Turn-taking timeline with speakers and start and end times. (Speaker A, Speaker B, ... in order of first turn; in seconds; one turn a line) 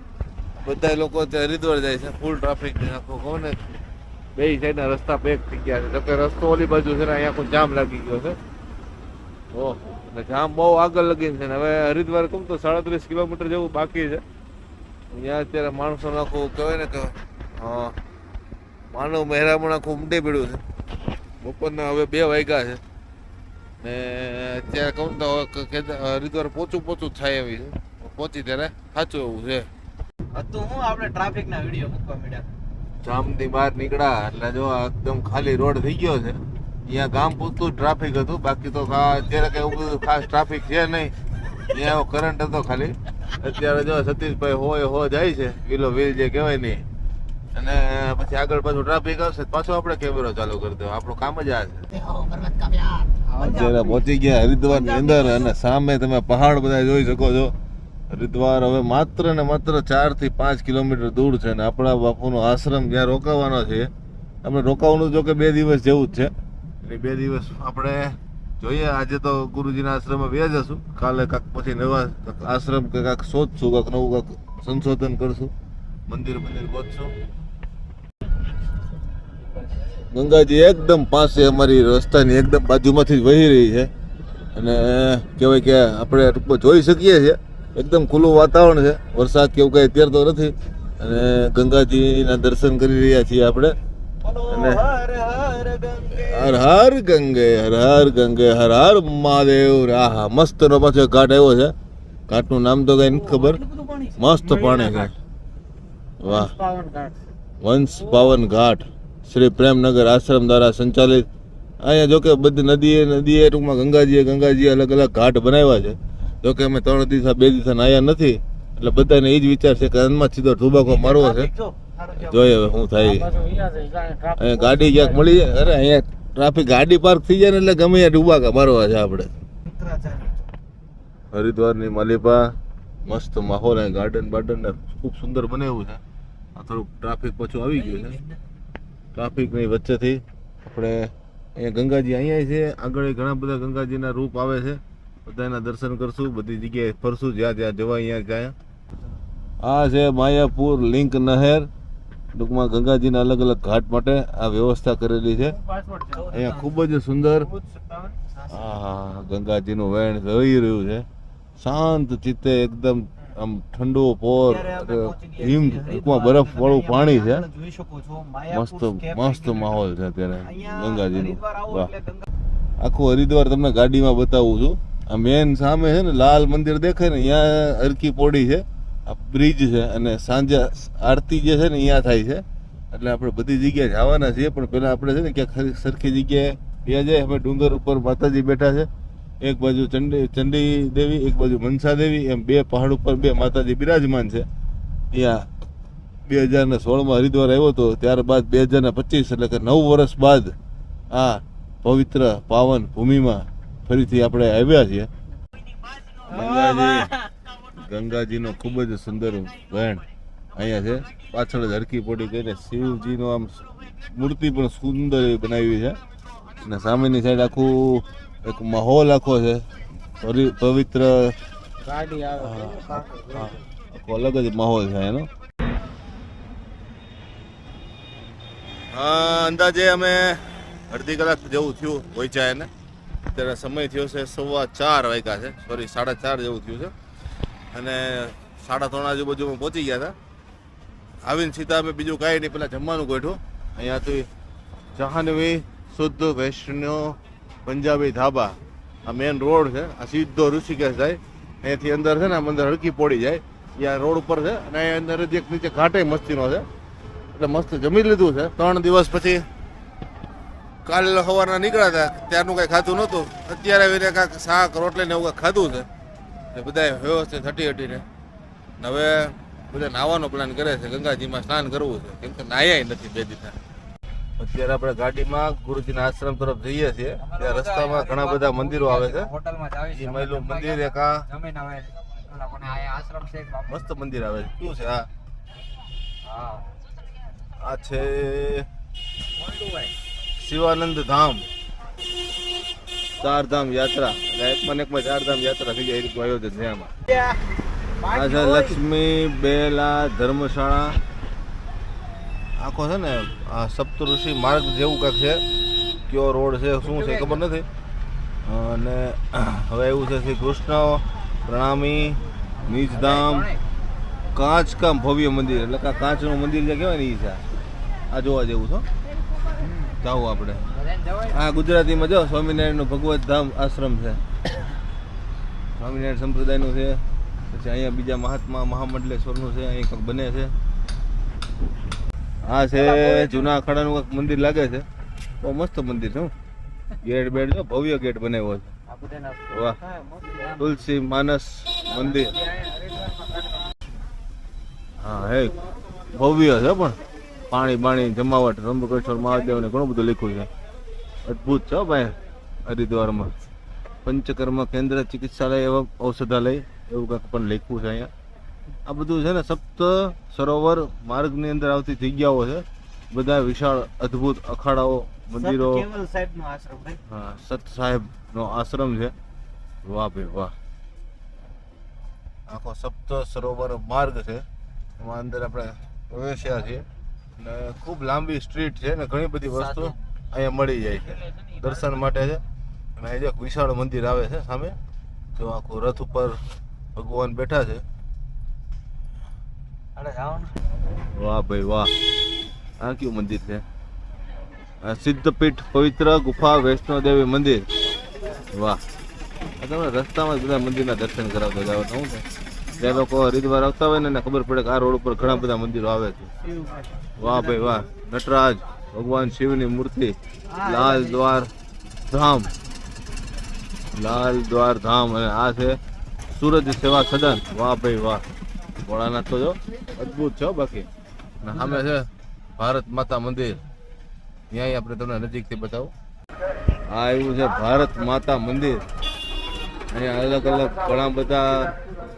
Speaker A: 0.6-3.6
Speaker A: 4.3-8.4
Speaker A: 9.5-14.2
Speaker A: 15.1-17.9
Speaker A: 18.9-20.6
Speaker A: 21.4-22.8
Speaker A: 23.8-29.6
Speaker B: 30.3-32.5
Speaker A: 33.0-46.8
Speaker A: 47.5-51.9
Speaker B: 52.0-54.0
Speaker C: 53.2-54.0
Speaker A: 53.4-57.5
Speaker B: 54.7-55.5
Speaker A: 58.1-63.9
Speaker A: 64.4-75.5
Speaker A: 76.1-77.1
Speaker A: 80.1-83.9
Speaker A: 84.5-93.8
Speaker B: 94.2-96.6
Speaker A: 94.5-94.8
Speaker A: 96.1-101.7
Speaker A: 102.3-103.6
Speaker C: 103.1-105.1
Speaker A: 104.2-105.1
Speaker A: 106.2-106.5
Speaker C: 106.2-107.2
Speaker A: 107.6-111.3
Speaker C: 107.9-108.4
Speaker A: 111.8-121.5
Speaker B: 120.8-122.7
Speaker A: 122.2-123.3
Speaker C: 123.0-125.2
Speaker A: 124.4-129.3
Speaker B: 129.7-130.3
Speaker A: 131.3-132.5
Speaker A: 133.1-136.0
Speaker A: 136.5-138.2
Speaker B: 137.9-138.2
Speaker A: 139.1-148.5
Speaker A: 149.6-151.7
Speaker A: 152.3-155.6
Speaker C: 155.6-156.4
Speaker B: 156.1-156.8
Speaker A: 156.3-157.5
Speaker C: 157.4-158.2
Speaker B: 158.3-158.7
Speaker A: 158.5-161.0
Speaker A: 161.6-167.4
Speaker B: 164.4-169.8
Speaker A: 168.5-171.9
Speaker B: 170.4-172.3
Speaker A: 172.8-188.9
Speaker A: 189.4-194.4
Speaker A: 195.1-195.5
Speaker A: 196.3-200.5
Speaker A: 201.1-205.1
Speaker A: 206.3-207.2
Speaker C: 206.3-207.0
Speaker A: 207.7-210.0
Speaker A: 210.5-216.0
Speaker A: 216.6-219.6
Speaker A: 220.2-221.3
Speaker C: 221.8-223.6
Speaker A: 222.3-225.3
Speaker A: 228.9-232.7
Speaker A: 233.3-236.9
Speaker A: 237.7-240.1
Speaker A: 241.2-244.3
Speaker A: 244.9-256.6
Speaker A: 257.3-259.4
Speaker A: 260.8-265.9
Speaker A: 266.5-268.1
Speaker A: 268.8-273.6
Speaker A: 274.4-279.3
Speaker C: 277.2-283.8
Speaker A: 279.9-281.2
Speaker A: 283.7-285.1
Speaker C: 286.2-286.6
Speaker A: 287.6-288.7
Speaker C: 289.4-289.9
Speaker A: 290.4-291.4
Speaker A: 293.2-296.9
Speaker C: 298.0-298.8
Speaker A: 298.1-301.0
Speaker A: 302.6-305.4
Speaker A: 306.1-307.6
Speaker C: 306.8-307.4
Speaker A: 308.4-313.5
Speaker C: 312.6-313.6
Speaker A: 314.3-317.4
Speaker A: 318.1-318.9
Speaker C: 319.6-319.9
Speaker A: 320.0-320.7
Speaker C: 320.8-321.3
Speaker A: 321.3-324.2
Speaker A: 325.8-330.5
Speaker A: 332.4-334.9
Speaker C: 332.7-333.5
Speaker A: 335.4-336.3
Speaker A: 337.0-338.7
Speaker C: 338.9-340.8
Speaker A: 339.5-339.8
Speaker A: 340.6-342.4
Speaker C: 341.9-343.7
Speaker A: 345.0-345.6
Speaker A: 346.1-347.0
Speaker A: 347.5-350.5
Speaker A: 351.2-353.3
Speaker A: 354.0-358.1
Speaker A: 358.9-365.9
Speaker B: 365.3-367.0
Speaker A: 367.1-369.1
Speaker A: 369.8-370.5
Speaker A: 372.5-374.4
Speaker A: 375.0-376.8
Speaker A: 377.4-382.4
Speaker C: 379.5-379.9
Speaker C: 380.9-382.0
Speaker A: 383.0-384.8
Speaker A: 385.4-386.4
Speaker A: 386.9-387.8
Speaker B: 389.9-390.5
Speaker A: 391.1-391.9
Speaker A: 392.8-393.6
Speaker A: 394.8-397.7
Speaker A: 398.5-398.8
Speaker A: 399.6-402.2
Speaker A: 402.7-406.3
Speaker C: 406.4-407.7
Speaker B: 406.5-406.8
Speaker A: 407.2-411.5
Speaker C: 410.5-411.2
Speaker A: 412.1-412.5
Speaker A: 413.9-415.8
Speaker A: 416.3-418.2
Speaker A: 418.8-420.9
Speaker A: 421.4-423.6
Speaker A: 424.5-425.9
Speaker A: 426.9-428.8
Speaker A: 429.9-431.7